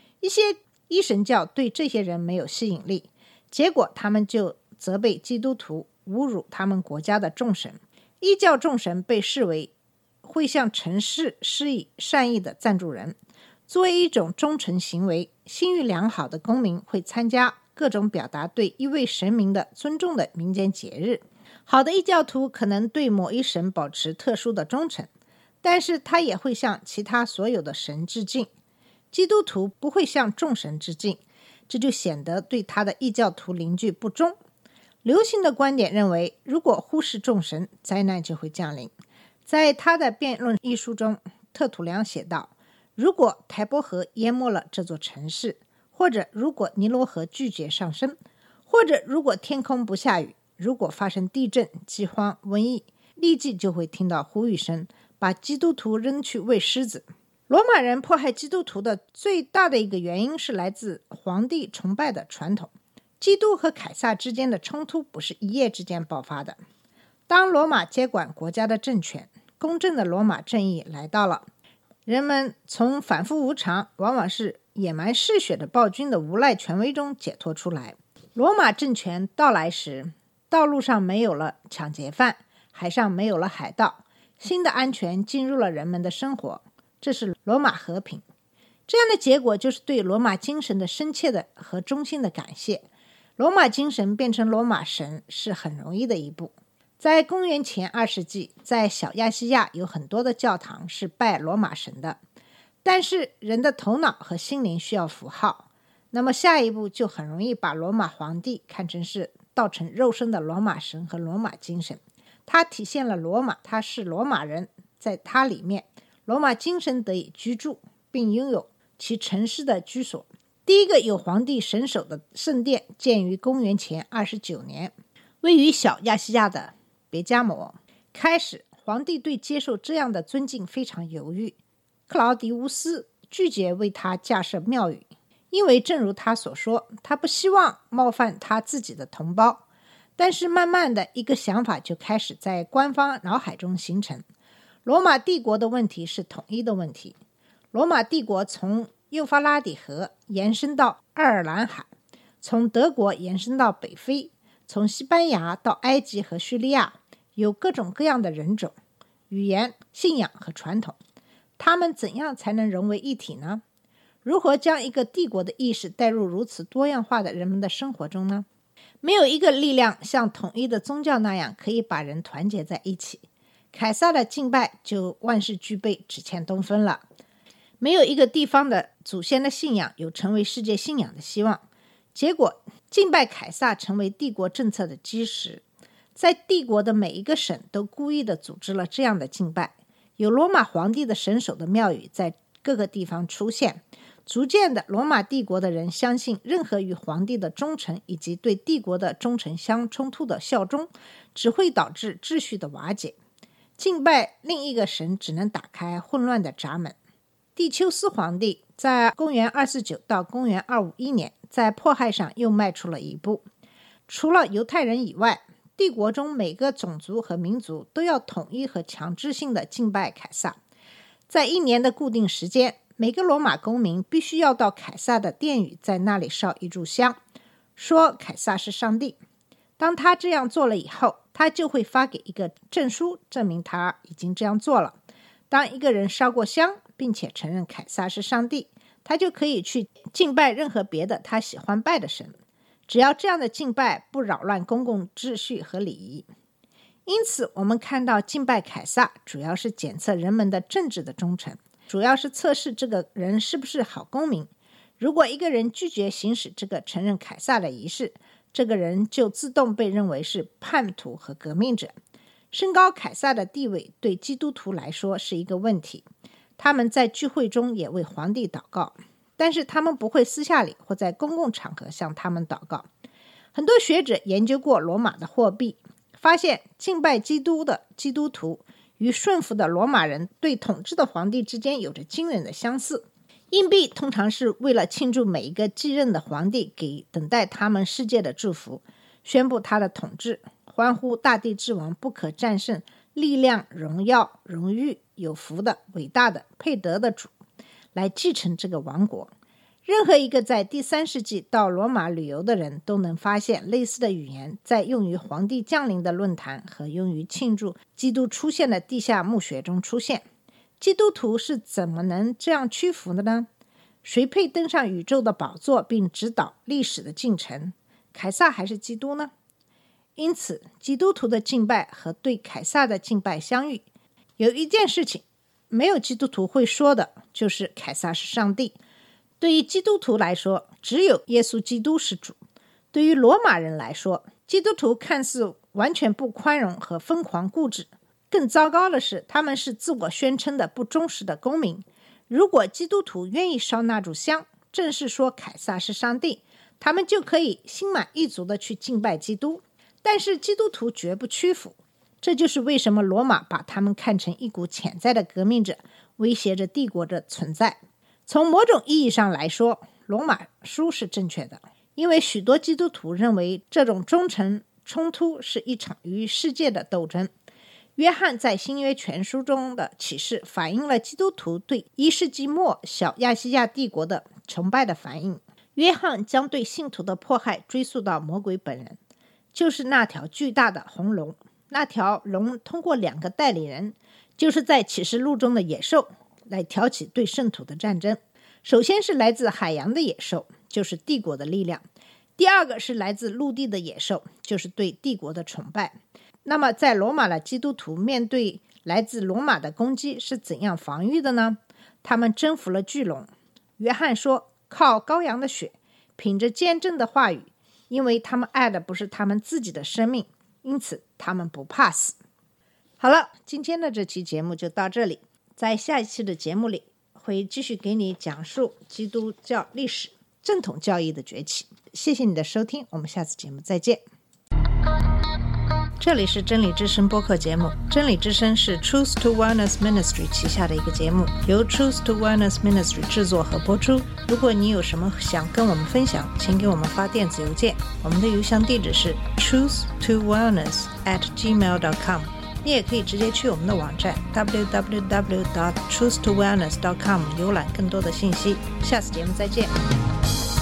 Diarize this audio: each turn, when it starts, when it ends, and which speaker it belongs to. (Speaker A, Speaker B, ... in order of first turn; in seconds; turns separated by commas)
Speaker A: 0.2-13.2, Speaker A: 13.7-25.1, Speaker A: 25.6-28.5, Speaker A: 29.1-34.4, Speaker A: 35.0-38.9, Speaker A: 39.5-48.2, Speaker A: 48.7-66.6, Speaker A: 67.3-71.5, Speaker A: 72.1-88.2, Speaker A: 88.9-92.8, Speaker A: 93.4-102.2, Speaker A: 102.8-139.7, Speaker A: 140.2-144.2, Speaker A: 144.8-147.2, Speaker A: 147.7-151.9, Speaker A: 152.4-158.8, Speaker A: 159.3-161.0, Speaker A: 161.6-163.6, Speaker A: 164.2-168.5, Speaker A: 169.0-177.0, Speaker A: 177.8-181.6, Speaker A: 182.2-185.6, Speaker A: 186.2-203.2, Speaker A: 203.8-207.0, Speaker A: 207.6-213.4, Speaker A: 214.1-220.6, Speaker A: 221.3-227.2, Speaker A: 227.8-229.2, Speaker A: 229.8-235.0, Speaker A: 235.5-242.3, Speaker A: 242.9-246.3, Speaker A: 247.1-261.9, Speaker A: 262.5-266.1, Speaker A: 266.6-272.9, Speaker A: 273.5-297.3, Speaker A: 297.9-299.3, Speaker A: 299.9-310.2, Speaker A: 310.8-313.5, Speaker A: 314.0-319.3, Speaker A: 320.2-323.9, Speaker A: 324.4-328.8, Speaker A: 329.4-332.4, Speaker A: 332.9-367.3, Speaker A: 368.0-379.0, Speaker A: 379.5-391.8, Speaker A: 392.4-412.2, Speaker A: 413.0-424.0, Speaker A: 426.0-449.7